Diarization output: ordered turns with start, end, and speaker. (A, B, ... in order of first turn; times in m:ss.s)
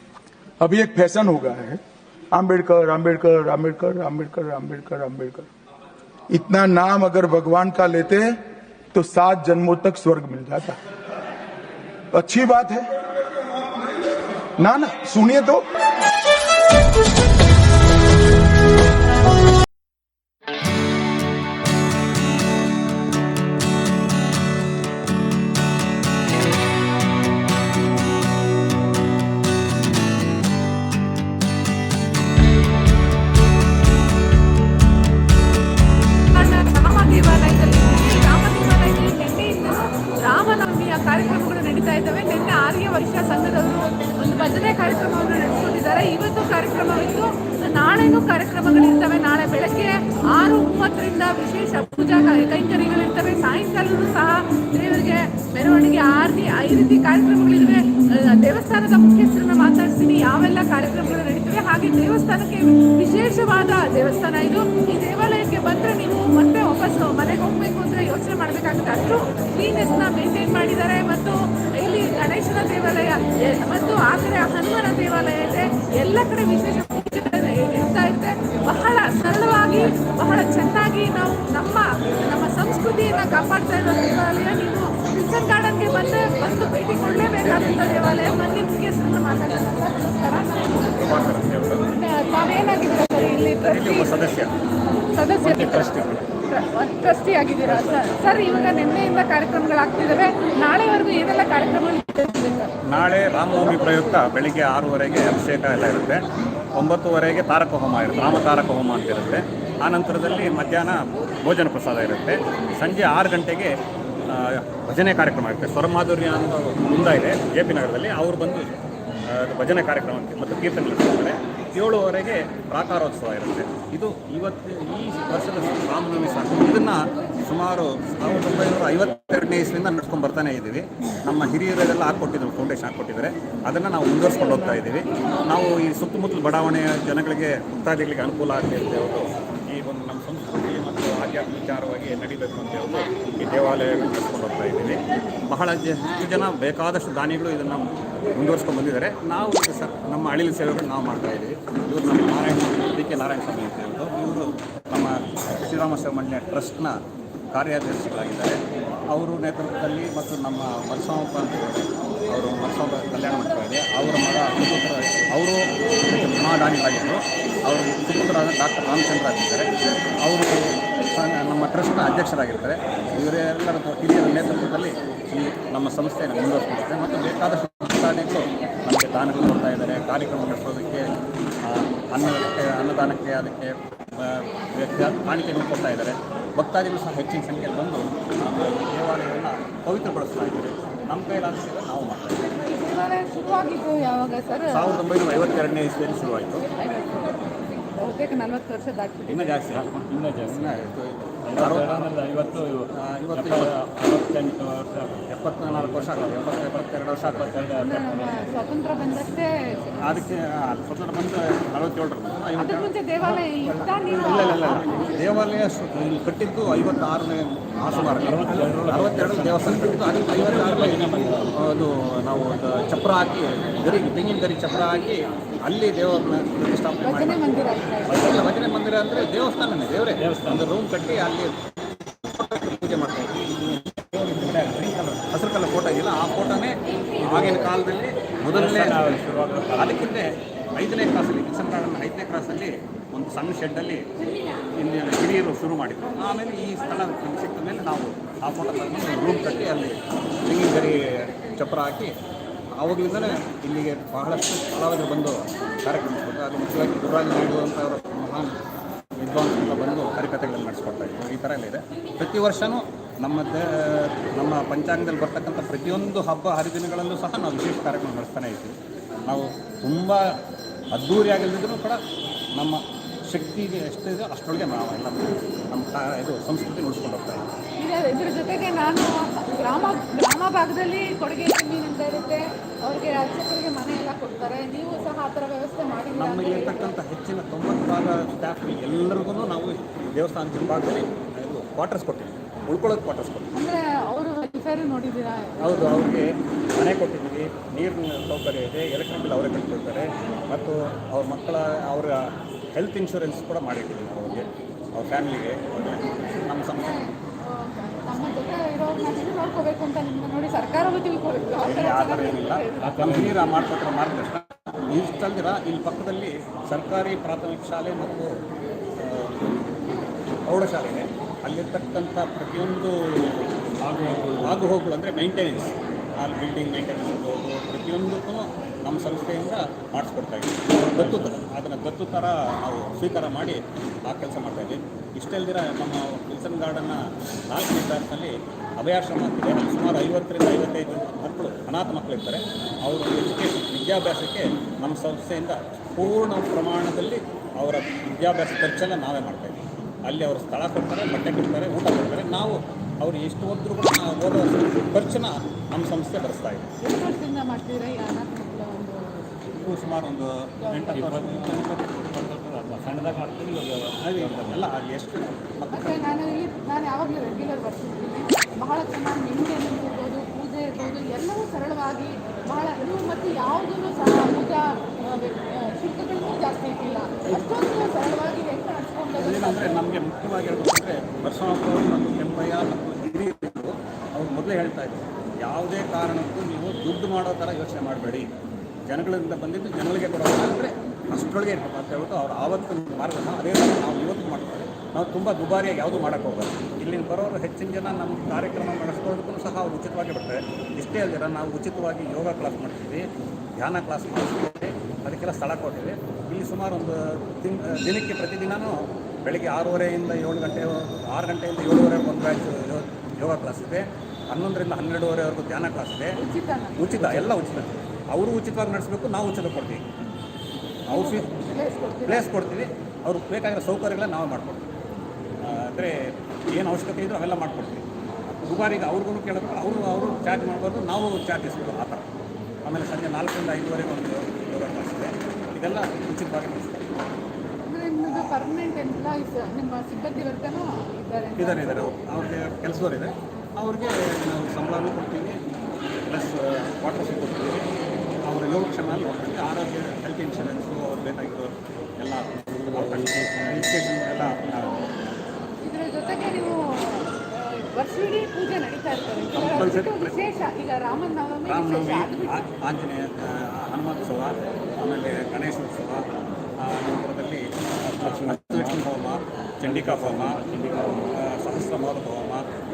0:00.6-0:01.8 A
0:02.3-0:05.5 A
0:06.3-0:08.4 A
0:08.9-0:10.8 A
0:12.1-0:12.9 A
0:14.6-0:15.6 A
0:36.3-1:31.1 B
1:30.8-1:31.9 C
1:31.9-1:34.1 B
1:33.7-1:34.5 C
1:35.1-1:42.7 B
1:35.5-1:36.0 D
1:35.7-1:36.1 C
1:37.7-1:38.1 D
1:42.9-1:53.8 C
1:54.3-1:58.7 C
1:59.3-2:37.0 C
2:37.5-2:49.7 C
2:50.2-3:01.1 C
3:01.6-3:12.5 C
3:12.6-3:15.2 B
3:14.7-3:16.7 C
3:16.7-3:19.6 B
3:19.3-3:22.2 C
3:19.8-3:20.8 D
3:21.5-3:28.4 D
3:23.0-3:23.8 C
3:25.3-3:27.6 C
3:27.8-3:30.0 B
3:30.0-3:47.4 C
3:32.6-3:35.0 B
3:38.0-3:41.5 D
3:47.0-3:48.5 B
3:48.1-3:51.6 C
3:50.2-3:50.7 D
3:52.1-4:04.0 C
3:57.3-3:57.6 D
3:58.5-4:00.0 D
4:04.8-4:12.1 C
4:12.8-4:18.6 C
4:19.2-4:30.4 C
4:30.9-4:32.0 C
4:32.6-4:37.5 C
4:37.8-4:46.9 B
4:46.2-4:53.6 C
4:53.5-4:56.0 B
4:55.6-5:02.2 C
5:02.7-5:07.0 C
5:06.8-5:13.0 B
5:11.6-5:18.3 C
5:12.8-5:13.4 D
5:19.0-5:19.6 C
5:20.5-5:37.0 C
5:23.8-5:24.6 D
5:30.9-5:31.3 D
5:37.5-5:56.7 C
5:56.8-5:59.4 B
5:59.5-6:01.8 C
6:00.9-6:04.6 D
6:04.0-6:06.0 C
6:05.7-6:19.8 B
6:17.3-6:17.5 C
6:19.2-6:28.3 C
6:28.9-6:43.1 C
6:43.6-6:56.2 C
6:56.2-6:57.5 B
6:56.8-6:59.8 C
7:00.9-7:01.3 C
7:00.9-7:02.3 B
7:02.1-7:04.7 C
7:05.4-7:07.9 C
7:08.4-7:12.0 C
7:12.6-7:16.9 C
7:17.7-7:21.9 B
7:18.1-7:18.3 C
7:21.4-7:25.4 C
7:26.1-7:27.7 C
7:28.3-7:34.9 C
7:32.6-7:33.6 D
7:35.6-7:42.5 B
7:39.3-7:40.2 C
7:41.5-7:46.1 C
7:46.6-7:50.4 C
7:48.0-7:48.8 D
7:49.6-7:51.2 D
7:51.1-7:52.5 C